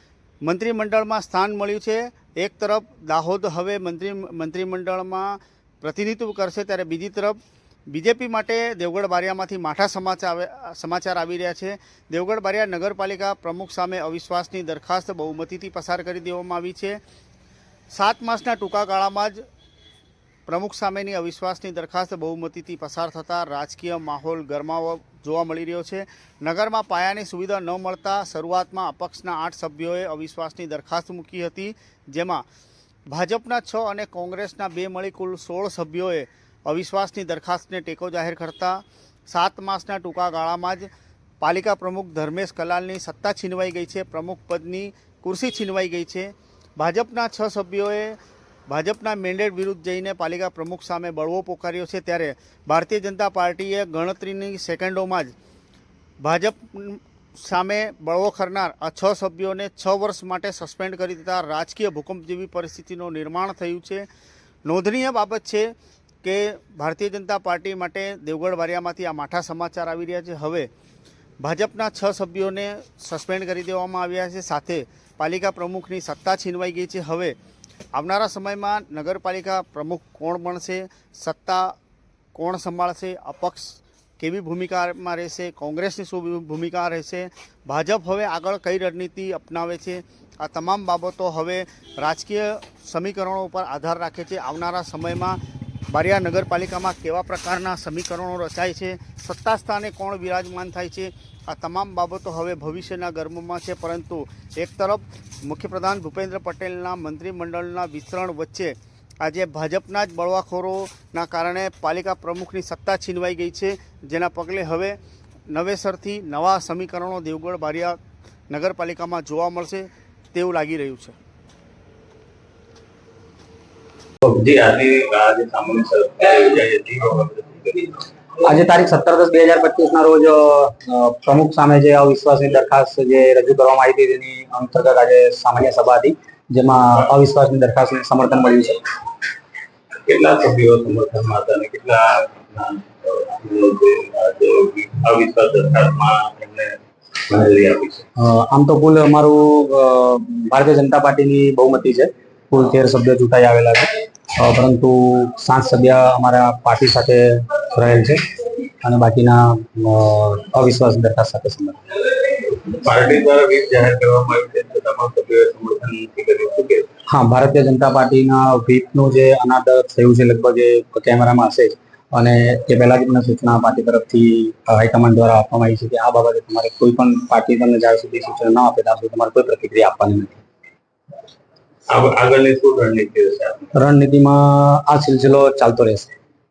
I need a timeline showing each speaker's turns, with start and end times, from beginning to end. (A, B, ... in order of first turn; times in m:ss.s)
0:00.4-0:07.4 A
0:07.9-0:17.0 A
0:17.9-0:19.4 A
0:20.5-0:32.4 A
0:33.1-0:40.9 A
0:41.4-0:48.2 A
0:48.7-0:55.3 A
0:56.2-1:04.1 A
1:04.7-1:10.7 A
1:11.4-1:17.4 A
1:17.9-1:21.8 A
1:22.4-1:35.4 A
1:35.9-1:55.0 A
1:55.5-1:58.0 A
1:58.5-2:01.2 A
2:04.2-2:08.0 B
2:08.4-2:18.8 C
2:20.1-2:26.8 B
2:27.3-2:28.1 B
2:28.2-2:38.2 C
2:38.8-2:41.8 C
2:42.3-2:46.9 B
2:47.1-3:00.4 C
3:01.9-3:03.7 B
3:03.7-3:06.1 C